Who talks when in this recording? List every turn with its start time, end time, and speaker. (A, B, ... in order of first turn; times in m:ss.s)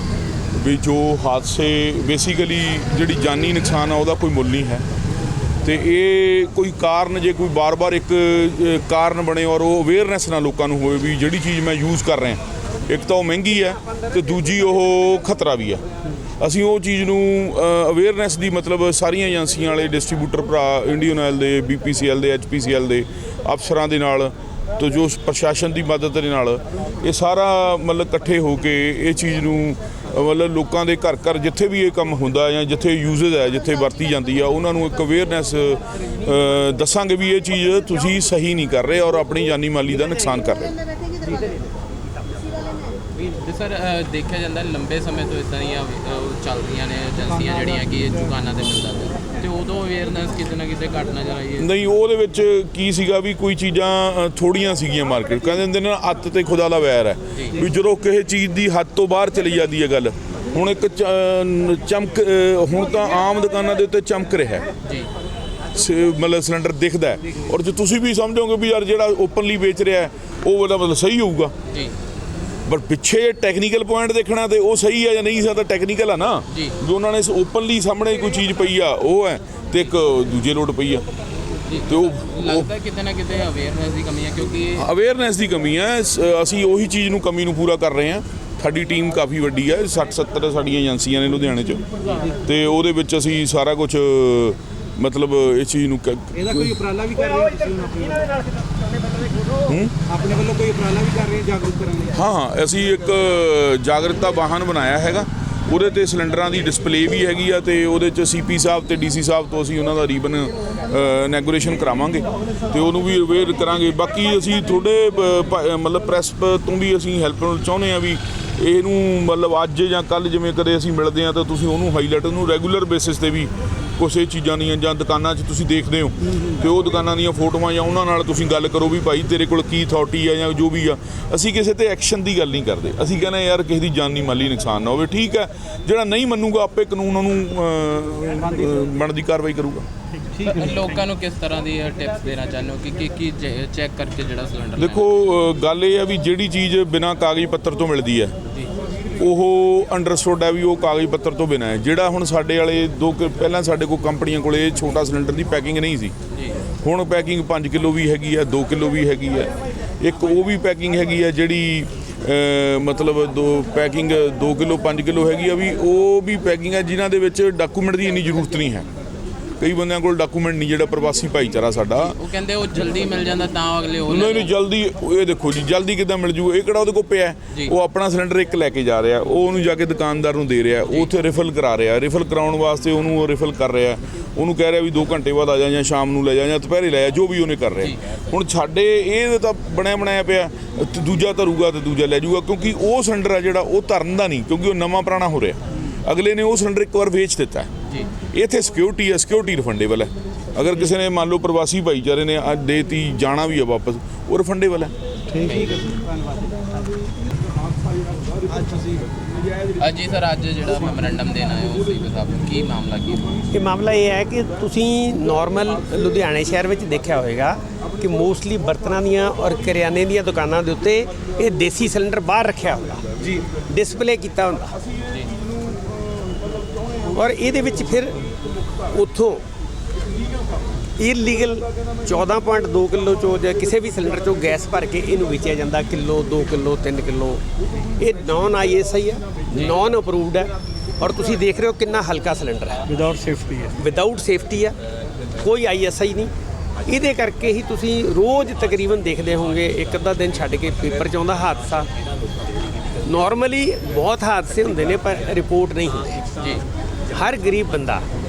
0:00.5-0:04.8 A
0:05.6-0:15.8 A
0:16.4-0:40.8 A
0:43.2-0:51.7 B
0:51.6-1:04.7 A
1:04.8-1:05.1 B
1:05.7-1:11.5 A
1:12.7-1:21.0 A
1:16.5-1:16.8 B
1:21.6-1:24.8 B
1:21.9-1:22.7 A
1:24.7-1:31.8 A
1:32.4-1:36.8 A
1:36.6-1:37.1 C
1:37.2-1:39.6 D
1:39.7-1:39.9 A
1:40.1-1:42.0 C
1:42.1-2:19.8 A
2:20.4-2:25.1 B
2:24.8-2:28.3 A
2:29.1-2:36.1 A
2:36.3-2:36.6 B
2:36.8-2:48.9 A
2:49.6-2:52.2 A
2:52.0-2:54.5 B
2:54.1-3:17.7 A
3:18.3-3:24.9 A
3:25.4-3:25.9 B
3:29.8-3:33.4 B
3:33.5-3:44.8 D
3:47.1-3:48.2 D
3:48.9-3:49.4 D
3:51.0-3:57.4 D
3:58.0-4:03.0 D
3:59.5-3:59.8 B
4:03.7-4:04.7 D
4:05.4-4:06.3 D
4:06.8-4:11.9 D
4:13.0-4:16.2 D
4:16.4-4:16.6 B
4:17.1-4:18.0 D